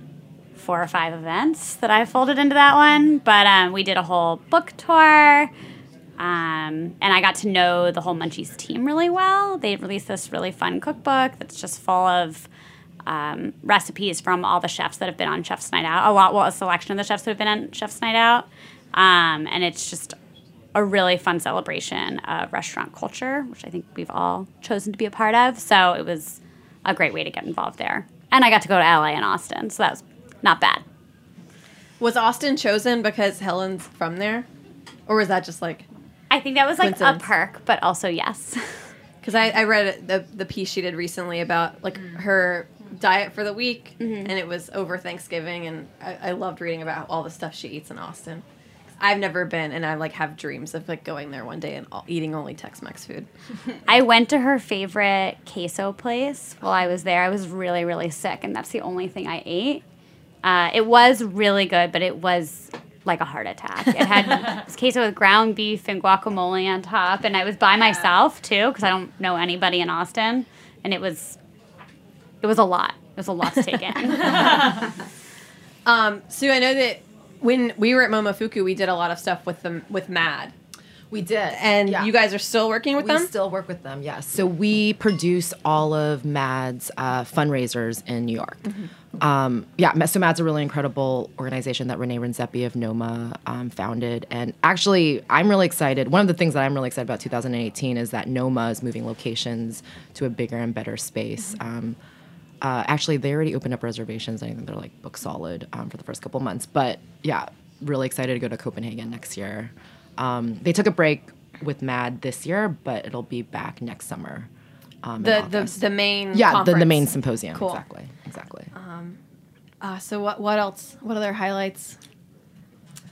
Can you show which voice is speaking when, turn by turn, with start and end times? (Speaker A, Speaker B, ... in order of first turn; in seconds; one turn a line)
Speaker A: 0.6-5.5
Speaker A: 6.2-12.5
Speaker A: 13.1-20.2
Speaker A: 20.8-30.8
Speaker B: 32.0-34.5
Speaker B: 35.1-35.9
Speaker A: 36.3-38.9
Speaker B: 36.8-37.3
Speaker B: 39.2-48.4
Speaker A: 44.0-44.3
Speaker B: 49.0-53.3
Speaker A: 53.9-59.8
Speaker A: 60.4-71.4
Speaker A: 72.4-74.9
Speaker B: 75.8-80.5
Speaker C: 81.1-82.1
Speaker B: 81.5-83.3
Speaker C: 83.0-88.6
Speaker C: 89.2-102.0
Speaker C: 102.6-114.5
Speaker C: 115.0-118.7
Speaker B: 115.2-117.8
Speaker B: 118.8-119.2
Speaker B: 119.8-122.0